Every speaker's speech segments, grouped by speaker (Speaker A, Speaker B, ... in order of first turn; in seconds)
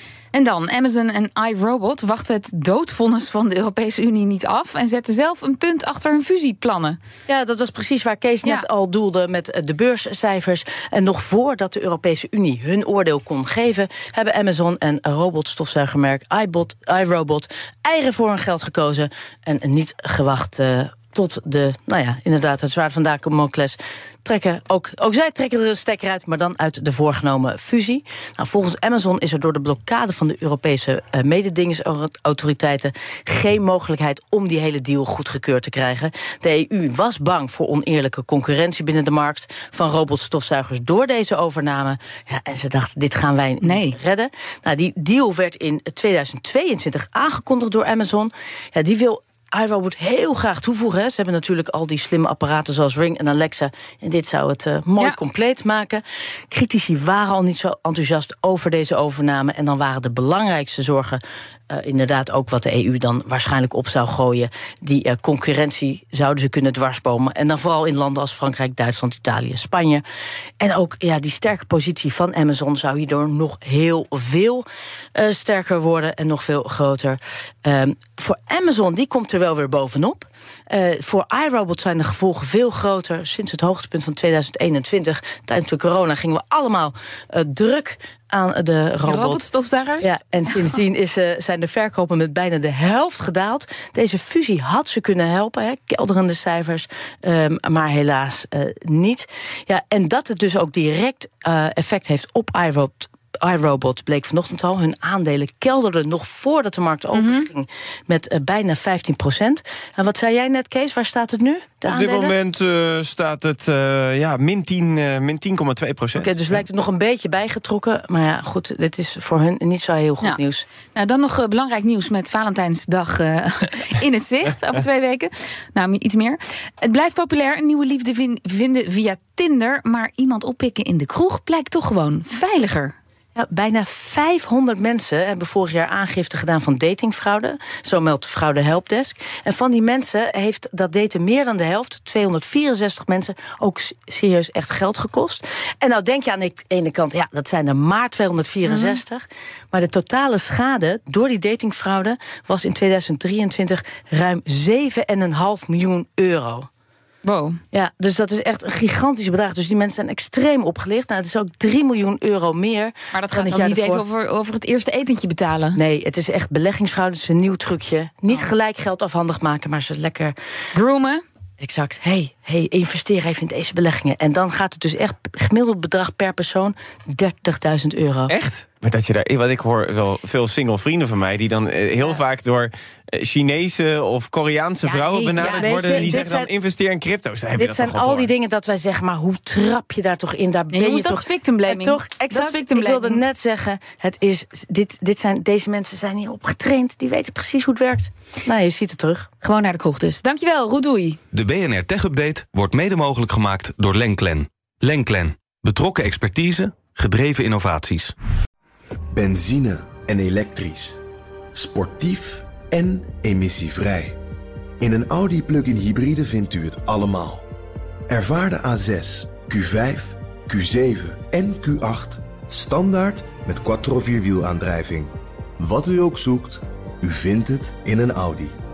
Speaker A: 0.3-7.0, 43.6-44.0, 89.0-90.6, 107.1-107.5, 120.2-132.9, 148.7-149.0, 157.2-157.6, 163.1-165.8, 170.7-171.2, 184.8-186.5, 190.7-193.2, 199.4-201.2
Speaker B: 7.3-70.0, 70.6-89.4, 90.0-112.3, 116.2-120.7, 133.3-156.7, 157.7-164.0, 165.7-170.3, 171.6-178.3, 185.4-186.4, 187.5-199.3
Speaker C: 111.8-116.5, 178.3-188.3
Speaker D: 201.3-208.1
Speaker E: 209.1-211.0, 211.5-214.2, 214.8-217.5, 218.1-228.6